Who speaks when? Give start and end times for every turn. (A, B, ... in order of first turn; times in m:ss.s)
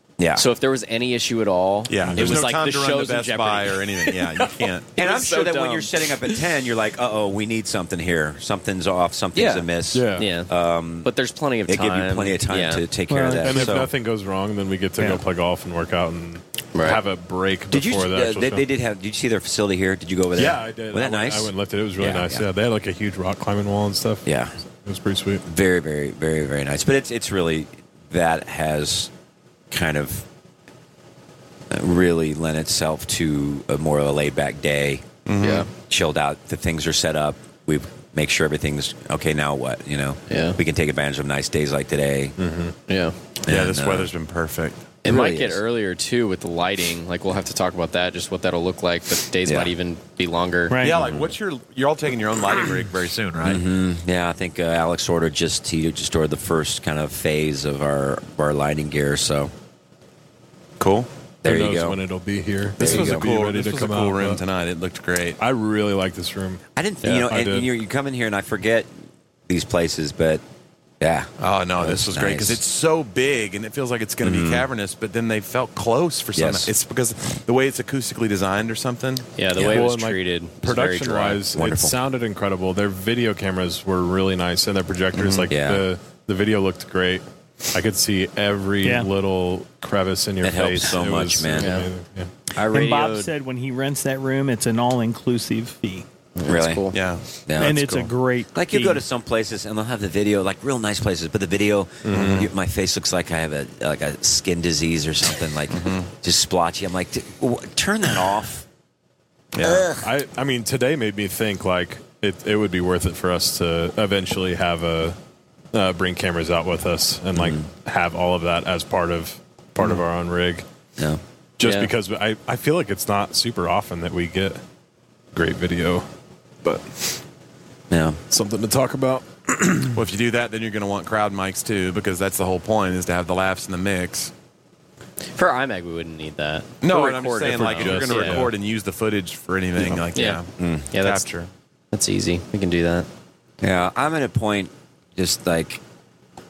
0:00.2-0:00.5 A
0:00.4-0:06.4 B
0:01.9-0:05.0 C
0:02.1-0:02.4 A
0:05.0-0:11.1 A
0:09.4-0:09.7 B
0:09.9-0:10.3 D
0:10.2-0:10.5 B
0:11.0-0:12.8 B
0:11.7-0:13.9 A
0:13.1-0:13.8 E
0:13.4-0:18.6 D
0:16.7-0:17.0 B
0:17.7-0:22.5 A
0:20.4-0:24.3 D
0:24.2-0:24.5 A
0:24.8-0:25.4 D
0:25.4-0:29.1 A
0:29.7-0:30.3 A
0:31.7-0:35.0 A
0:35.3-0:35.7 C
0:35.4-0:35.7 B
0:35.8-0:42.4 A
0:40.3-0:40.6 B
0:42.4-0:42.8 D
0:42.9-0:43.2 B
0:43.4-0:44.1 A
0:43.5-0:45.0 C
0:45.0-0:50.8 B
0:45.0-0:45.6 A
0:49.4-0:49.7 A
0:50.7-0:51.1 E
0:50.8-0:53.6 C
0:53.4-0:59.5 A
1:00.8-1:01.1 C
1:01.4-1:02.0 A
1:01.4-1:04.4 D
1:02.8-1:03.3 A
1:02.8-1:05.4 C
1:05.4-1:07.7 D
1:06.8-1:08.9 A
1:09.5-1:10.4 A
1:11.0-1:12.6 A
1:11.4-1:19.3 C
1:14.2-1:14.7 A
1:16.4-1:16.7 A
1:19.4-1:21.4 B
1:19.6-1:19.9 A
1:19.6-1:32.3 D
1:21.4-1:22.0 A
1:25.1-1:25.5 C
1:25.5-1:25.9 A
1:28.8-1:29.1 E
1:30.4-1:31.9 A
1:31.6-1:31.9 B
1:32.5-1:33.3 B
1:32.7-1:36.1 E
1:36.4-1:37.0 B
1:36.5-1:36.9 A
1:36.9-1:37.2 C
1:37.5-1:48.7 A
1:37.6-1:39.0 E
1:42.1-1:42.4 D
1:42.1-1:42.5 C
1:45.7-1:46.1 C
1:49.5-1:49.9 C
1:49.6-1:50.1 A
1:50.0-1:55.2 D
1:55.7-2:00.6 D
1:57.3-1:57.7 A
2:01.6-2:04.6 D
2:01.6-2:01.9 B
2:05.3-2:06.1 D
2:06.6-2:07.2 D
2:07.9-2:08.2 A
2:08.3-2:10.0 D
2:09.9-2:14.3 C
2:15.3-2:18.4 B
2:16.8-2:21.5 C
2:17.5-2:18.5 D
2:20.1-2:20.4 B
2:20.6-2:20.9 A
2:20.9-2:21.3 B
2:21.9-2:23.1 B
2:23.6-2:25.8 A